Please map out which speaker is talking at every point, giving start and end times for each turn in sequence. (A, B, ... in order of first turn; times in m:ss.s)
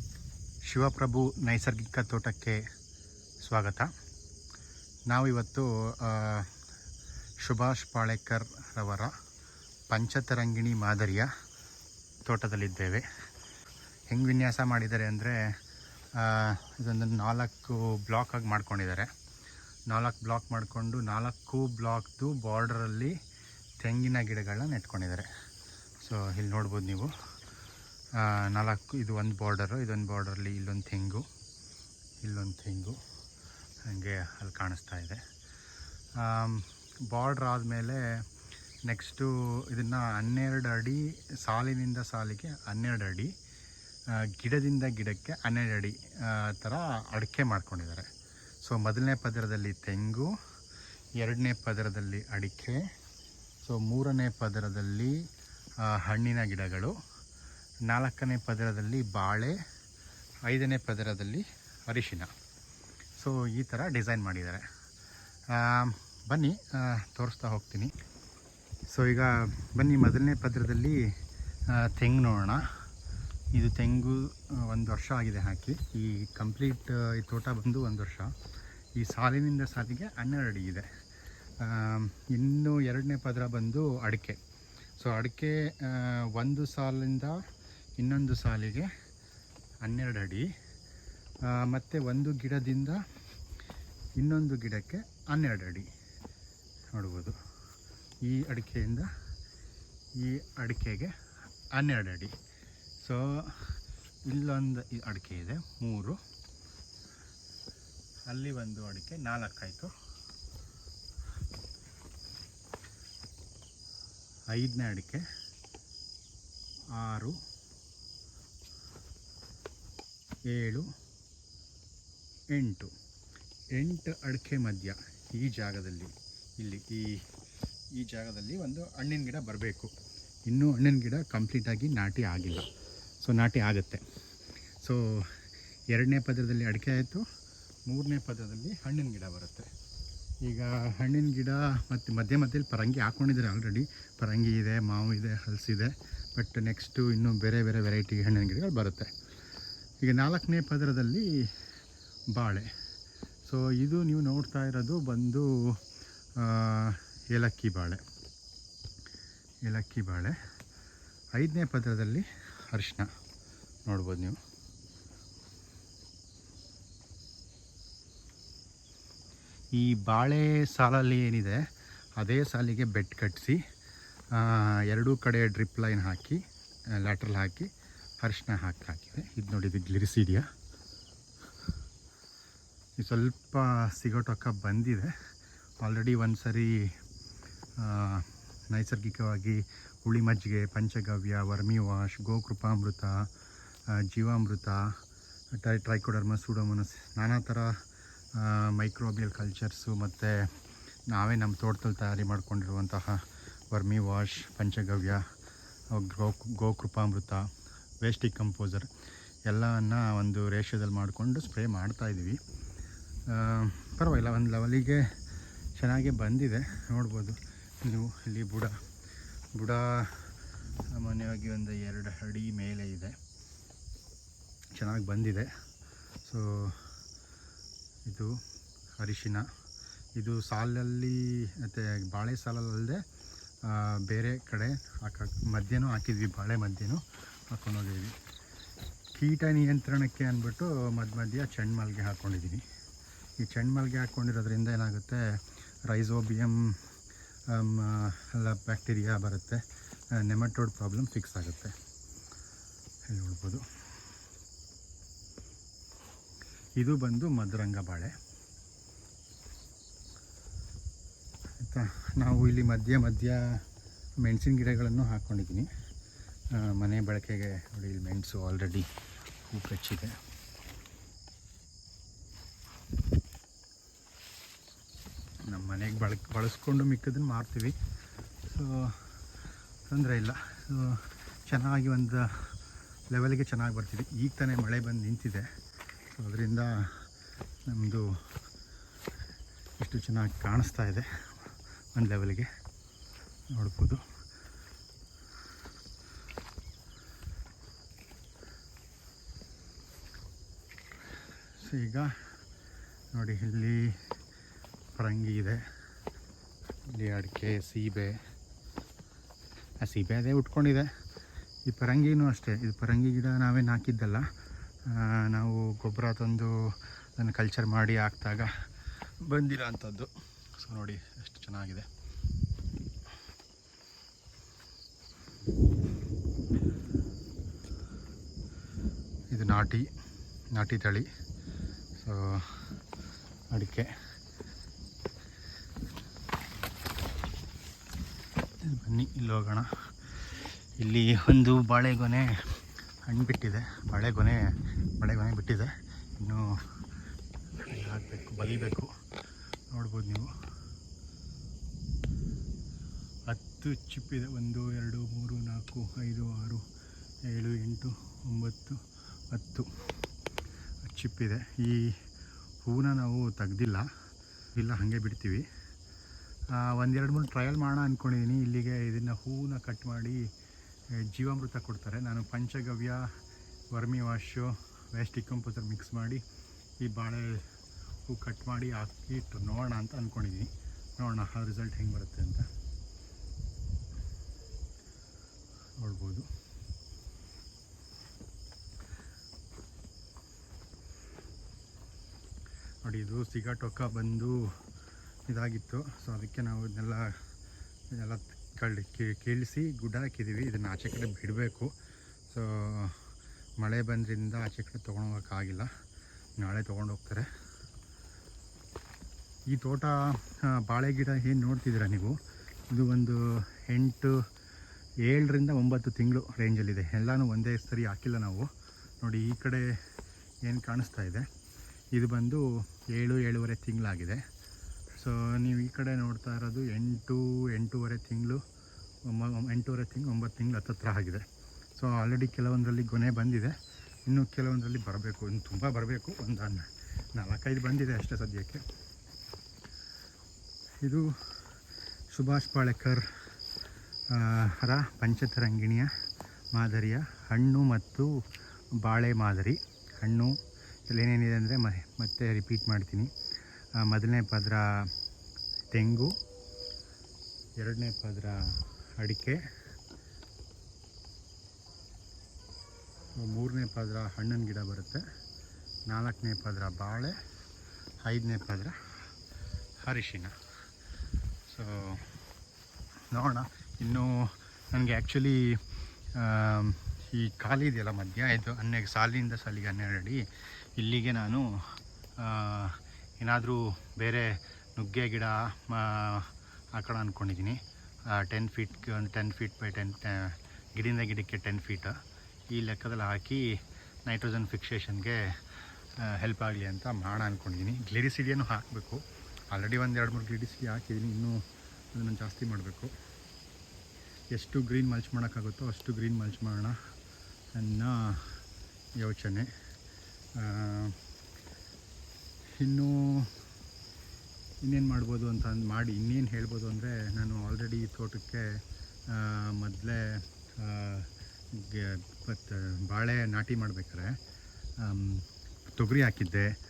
0:00.7-0:02.6 A
0:03.4-0:03.9 A
0:05.1-0:06.5 A
0:07.4-0:09.1 A
0:09.9-0:11.3 A
0:12.3-0:13.1 A
0:14.1-0:15.6 A
0:16.2-0:19.1 A
0:19.9-0:23.2 A
0:23.8-0:25.3 A
0:26.0-0:27.1 A
0:28.2-0:31.3 A
0:32.2-0:33.0 A
0:33.8-0:35.2 A
0:36.2-0:38.2 A
0:38.8-0:43.3 A
0:44.1-0:48.1 A
0:48.6-0:50.3 A
0:51.2-0:52.8 A
0:53.6-0:55.2 A
0:55.8-0:57.0 A
0:57.9-0:59.6 A
1:00.5-1:02.3 A
1:03.2-1:04.7 A
1:05.5-1:07.9 A
1:08.9-1:11.2 A
1:11.7-1:12.8 A
1:13.5-1:18.3 A
1:19.0-1:20.9 A
1:21.6-1:24.4 A
1:25.0-1:27.4 A
1:28.0-1:28.9 A
1:29.8-1:30.5 A
1:31.4-1:33.0 A
1:34.2-1:35.9 A
1:36.9-1:37.4 A
1:38.2-1:39.1 A
1:40.2-1:41.1 A
1:41.7-1:42.4 A
1:43.0-1:46.2 A
1:48.3-1:49.9 A
1:54.5-1:55.2 A
1:56.9-1:57.4 A
2:00.5-2:00.9 A
2:02.5-2:02.9 A
2:03.8-2:07.2 A
2:08.0-2:09.9 A
2:10.5-2:12.7 A
2:13.2-2:14.0 A
2:14.8-2:17.2 A
2:17.9-2:19.7 A
2:20.4-2:29.1 A
2:30.0-2:31.4 A
2:32.4-2:32.7 A
2:33.4-2:35.8 A
2:36.4-2:38.0 A
2:39.7-2:40.4 A
2:41.4-2:43.1 A
2:43.9-2:44.4 A
2:49.8-2:51.6 A
2:52.2-2:53.6 A
2:54.3-2:56.4 A
2:57.0-2:57.7 A
2:58.2-3:00.5 A
3:03.0-3:05.1 A
3:05.8-3:06.9 A
3:07.8-3:13.3 A
3:14.0-3:14.9 A
3:15.6-3:17.8 A
3:18.4-3:20.5 A
3:21.1-3:23.2 A
3:23.7-3:25.2 A
3:25.9-3:27.5 A
3:28.0-3:28.9 A
3:29.5-3:32.4 A
3:33.3-3:35.1 A
3:35.8-3:38.8 A
3:39.6-3:40.4 A
3:40.9-3:43.2 A
3:44.8-3:45.5 A
3:46.2-3:46.9 A
3:48.1-3:48.4 A
3:49.0-3:49.5 A
3:50.2-3:53.0 A
3:53.6-3:58.2 A
3:59.2-4:02.6 A
4:03.4-4:05.2 A
4:05.9-4:06.8 A
4:07.5-4:09.6 A
4:10.1-4:11.7 A
4:13.1-4:13.6 A
4:16.8-4:18.1 A
4:21.6-4:23.6 A
4:24.2-4:25.7 A
4:26.6-4:28.9 A
4:29.5-4:30.1 A
4:35.5-4:37.8 A
4:38.5-4:39.1 A
4:39.9-4:42.6 A
4:43.1-4:45.5 A
4:46.1-4:47.1 A
4:47.7-4:48.3 A
4:49.8-4:52.5 A
4:53.5-4:54.0 A
5:01.6-5:02.2 A
5:03.1-5:04.0 A
5:05.0-5:05.6 A
5:06.9-5:08.2 A
5:09.8-5:10.9 A
5:11.7-5:14.3 A
5:14.8-5:18.5 A
5:19.2-5:21.9 A
5:29.3-5:29.9 A
5:30.6-5:31.1 A
5:32.0-5:32.7 A
5:33.5-5:33.9 A
5:38.6-5:46.8 A
5:47.6-5:48.9 A
5:49.7-5:50.3 A
5:53.3-5:56.6 A
5:57.3-5:59.9 A
6:00.8-6:02.0 A
6:02.6-6:03.9 A
6:04.6-6:05.5 A
6:06.5-6:10.3 A
6:10.9-6:13.1 A
6:13.7-6:16.2 A
6:16.8-6:17.5 A
6:18.1-6:22.5 A
6:25.8-6:26.3 A
6:32.8-6:34.6 A
6:35.3-6:37.2 A
6:37.9-6:41.7 A
6:42.3-6:45.7 A
6:46.4-6:47.3 A
6:49.5-6:54.3 A
6:55.0-6:58.5 A
6:59.0-6:59.8 A
7:00.4-7:01.3 A
7:01.9-7:04.2 A
7:04.9-7:08.4 A
7:09.0-7:11.2 A
7:11.8-7:18.6 A
7:20.8-7:21.1 A
7:22.1-7:23.1 A
7:24.1-7:25.9 A
7:26.5-7:28.2 A
7:28.8-7:33.1 A
7:33.8-7:35.0 A
7:35.7-7:36.2 A
7:37.6-7:39.4 A
7:43.2-7:45.0 A
7:45.9-7:47.2 A
7:48.0-7:49.0 A
7:49.8-7:50.4 A
7:51.5-7:52.2 A
7:53.1-8:00.2 A
8:00.8-8:12.0 A
8:12.5-8:22.9 A
8:24.3-8:26.8 A
8:27.6-8:28.4 A
8:29.0-8:29.5 A
8:30.4-8:31.0 A
8:32.6-8:33.4 A
8:34.6-8:44.2 A
8:44.8-8:46.5 A